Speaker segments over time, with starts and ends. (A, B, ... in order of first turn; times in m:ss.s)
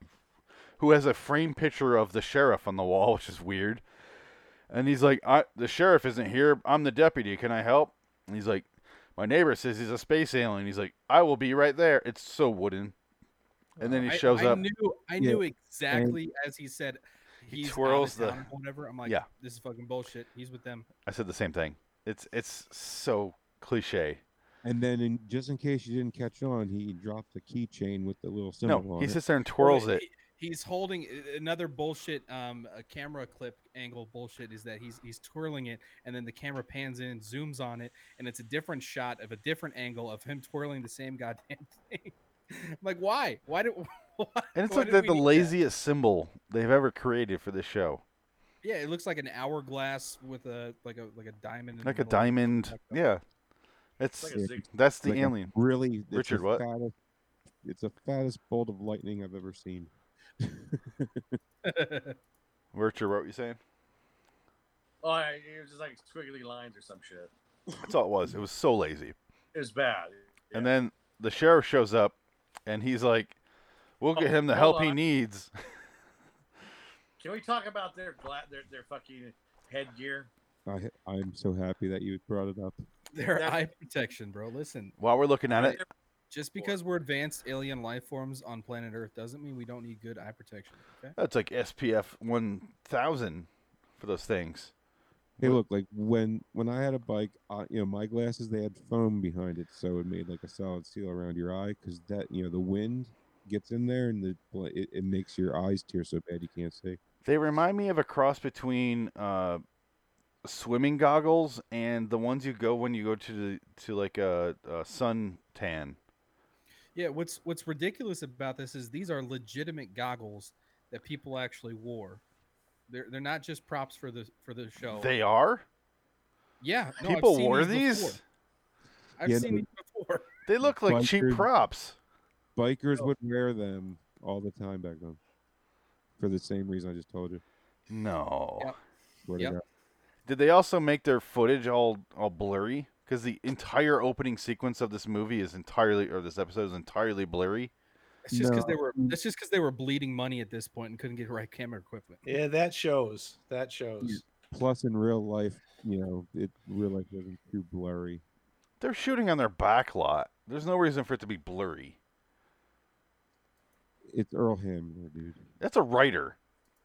0:00.8-0:03.8 A
0:04.7-0:12.9 A
0:13.8-0:14.6 A
0:14.0-0:20.9 B
0:15.2-0:16.2 C
0:17.5-0:18.4 A
0:21.1-0:24.2 A
0:24.6-0:29.2 C
0:28.6-0:30.0 A
0:29.6-0:45.6 B
0:44.6-0:48.0 A
0:48.6-0:53.0 B
0:51.8-0:53.2 A
0:54.0-0:55.5 A
0:54.2-0:54.7 D
0:54.3-0:56.9 C
0:56.1-0:56.6 A
0:57.6-1:01.4 C
1:01.6-1:02.2 B
1:02.7-1:03.6 A
1:05.0-1:07.3 D
1:07.9-1:09.2 A
1:09.5-1:10.7 D
1:10.5-1:12.2 A
1:12.7-1:13.4 A
1:14.0-1:15.5 A
1:14.2-1:15.0 D
1:17.2-1:20.3 D
1:20.7-1:22.8 C
1:23.1-1:25.0 B
1:23.4-1:23.7 D
1:25.0-1:25.8 A
1:25.5-1:25.9 D
1:26.3-1:31.2 B
1:31.2-1:34.7 A
1:35.4-1:47.0 C
1:47.2-1:49.6 A
1:50.4-1:56.0 A
1:57.0-2:02.2 B
2:02.9-2:05.1 B
2:04.8-2:05.6 A
2:06.6-2:08.2 B
2:07.0-2:08.2 A
2:09.2-2:10.3 B
2:09.2-2:09.7 C
2:10.5-2:12.0 A
2:10.6-2:11.5 C
2:12.6-2:15.2 C
2:16.2-2:17.4 C
2:17.9-2:18.7 A
2:19.2-2:19.6 C
2:20.3-2:27.7 A
2:28.3-2:32.3 B
2:28.3-2:29.2 C
2:32.2-2:34.2 E
2:34.0-2:38.2 C
2:38.8-2:42.0 A
2:44.0-2:45.5 C
2:45.6-2:46.4 A